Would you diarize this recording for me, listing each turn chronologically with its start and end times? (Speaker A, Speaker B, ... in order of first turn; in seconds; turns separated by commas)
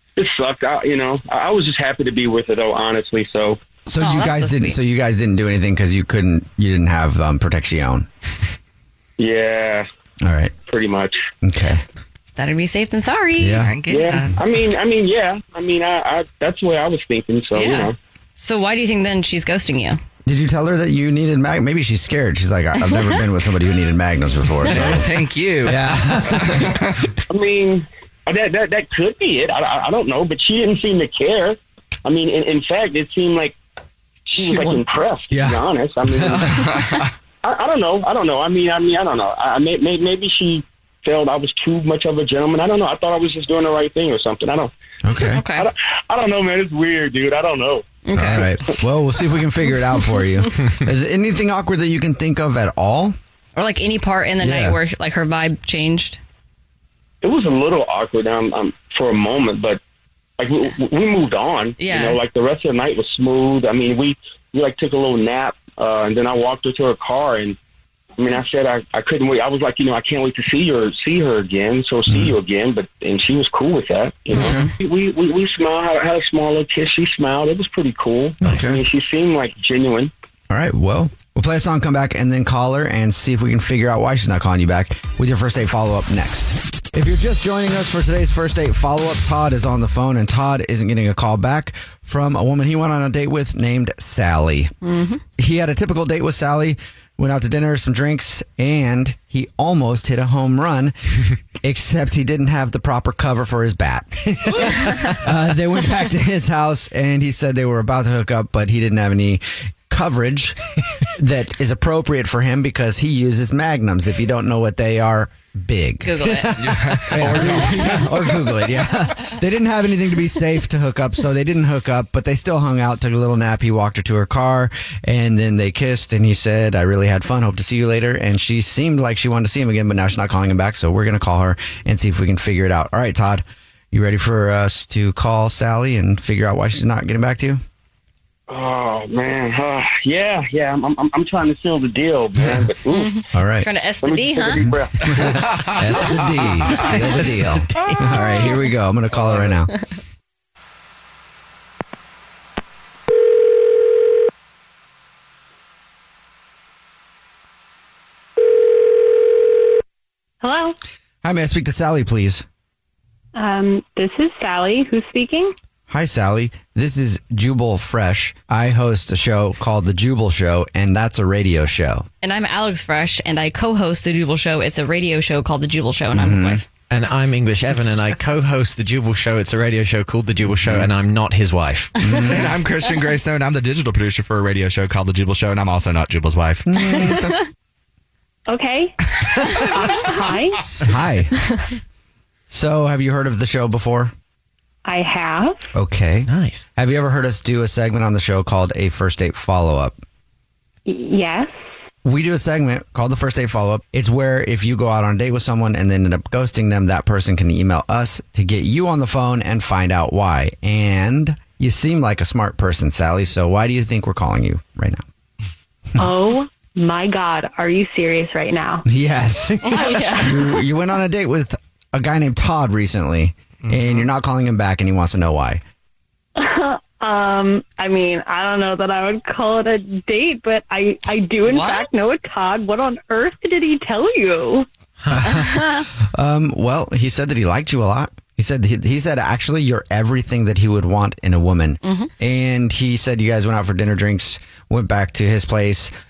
Speaker A: 0.2-3.6, Speaker B: 3.9-8.1, Speaker C: 4.0-4.8, Speaker A: 9.2-9.9, Speaker B: 10.2-10.6, Speaker A: 10.6-11.2, Speaker B: 11.4-11.8, Speaker C: 12.3-13.7, Speaker B: 13.4-13.8, Speaker D: 13.6-14.5, Speaker A: 13.9-17.9, Speaker C: 17.6-20.0, Speaker B: 20.3-25.1, Speaker C: 22.9-23.2, Speaker D: 24.6-26.9, Speaker B: 25.7-26.8, Speaker A: 27.3-33.6, Speaker A: 34.3-36.6, Speaker B: 35.3-36.6, Speaker D: 36.4-37.1, Speaker A: 37.4-44.7, Speaker B: 45.0-45.4, Speaker C: 45.3-45.7, Speaker A: 45.5-48.4, Speaker C: 48.0-48.5, Speaker B: 48.1-53.1, Speaker C: 53.6-56.2, Speaker B: 54.4-54.8, Speaker A: 57.2-59.8, Speaker A: 60.4-67.6, Speaker C: 61.8-62.2, Speaker A: 68.2-80.1, Speaker B: 72.1-72.3, Speaker C: 74.3-74.7, Speaker B: 74.3-74.7, Speaker B: 78.5-78.8, Speaker B: 80.5-94.7, Speaker C: 94.8-95.2, Speaker B: 95.4-101.0, Speaker B: 101.6-110.6, Speaker B: 111.2-116.3, Speaker C: 116.0-118.1, Speaker D: 116.5-118.4, Speaker B: 117.1-137.6, Speaker A: 138.5-143.1, Speaker C: 142.9-144.7, Speaker B: 143.3-143.7, Speaker A: 144.0-145.0, Speaker B: 144.6-149.7, Speaker D: 145.2-146.7, Speaker D: 149.2-149.5, Speaker E: 160.4-160.8, Speaker B: 161.2-162.4, Speaker E: 163.3-165.5, Speaker B: 165.9-172.1, Speaker C: 172.2-176.6, Speaker B: 176.1-176.6, Speaker F: 176.9-182.0, Speaker B: 180.6-180.9, Speaker B: 182.0-182.5, Speaker D: 182.1-187.1, Speaker B: 186.7-187.4, Speaker E: 188.5-188.9, Speaker E: 189.8-190.7, Speaker B: 190.6-191.3, Speaker B: 192.5-194.1, Speaker E: 194.9-195.7, Speaker B: 195.8-200.0, Speaker F: 196.3-196.7, Speaker E: 200.9-201.5, Speaker B: 202.0-215.0, Speaker E: 216.0-218.8, Speaker B: 218.8-225.6, Speaker C: 219.7-220.4, Speaker E: 219.8-220.5, Speaker D: 223.7-224.1, Speaker E: 226.4-234.7, Speaker C: 231.5-231.9, Speaker F: 235.1-235.3, Speaker B: 235.1-245.9, Speaker C: 235.3-235.8, Speaker C: 241.8-242.1